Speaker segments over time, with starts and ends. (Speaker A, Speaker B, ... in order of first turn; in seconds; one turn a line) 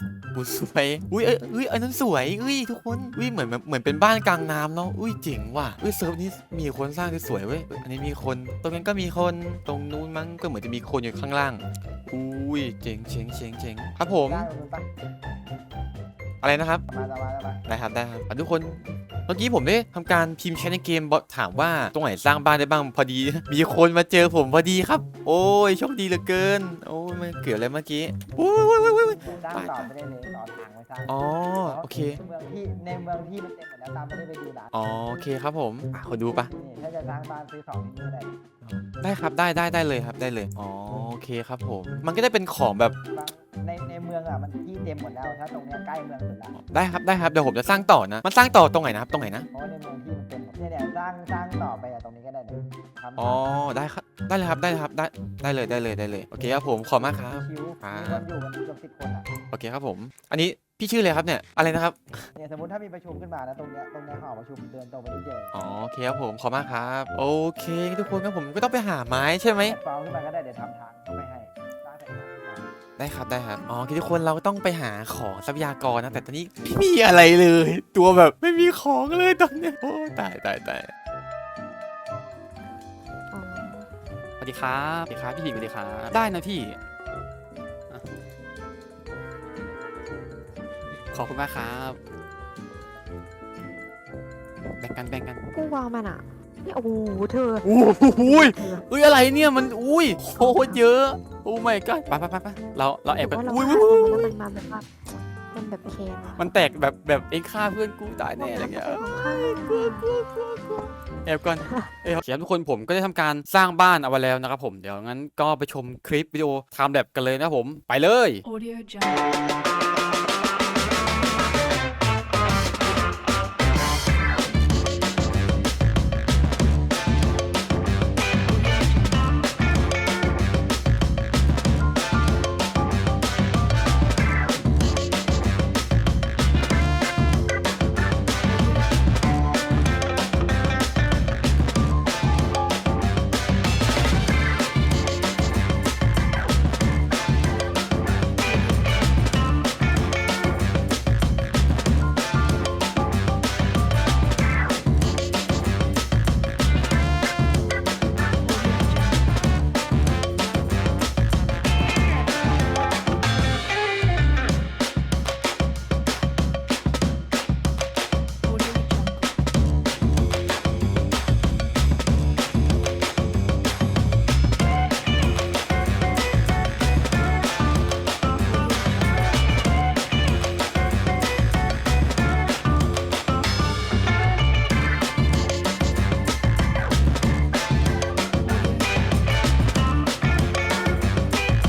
Speaker A: 0.3-14.5
Speaker B: 14.1-14.9
Speaker A: 16.4-16.9
Speaker B: 16.9-17.6
Speaker A: 17.7-29.9
Speaker B: 29.2-34.7
Speaker A: 31.1-32.2
Speaker A: 34.7-36.5
Speaker B: 36.2-38.4
Speaker A: 38.6-43.0
Speaker B: 43.1-46.6
Speaker A: 46.6-49.5
Speaker B: 49.5-53.5
Speaker A: 53.2-58.3
Speaker B: 56.9-59.3
Speaker A: 59.5-62.3
Speaker B: 62.4-65.5
Speaker A: 65.5-69.8
Speaker B: 69.6-72.7
Speaker A: 73.0-80.9
Speaker C: 83.3-83.9
Speaker D: 84.4-86.8
Speaker D: 91.1-92.0
Speaker D: 94.8-95.5
Speaker C: 95.5-98.9
Speaker D: 97.7-104.3
Speaker C: 100.4-100.8
Speaker C: 103.2-104.9
Speaker C: 105.5-106.5
Speaker D: 106.4-118.4
Speaker C: 108.4-110.1
Speaker E: 118.4-119.3
Speaker E: 128.5-129.3
Speaker E: 148.4-149.2
Speaker E: 158.4-159.3
Speaker E: 168.4-169.3
Speaker E: 178.4-179.4
Speaker E: 188.4-189.1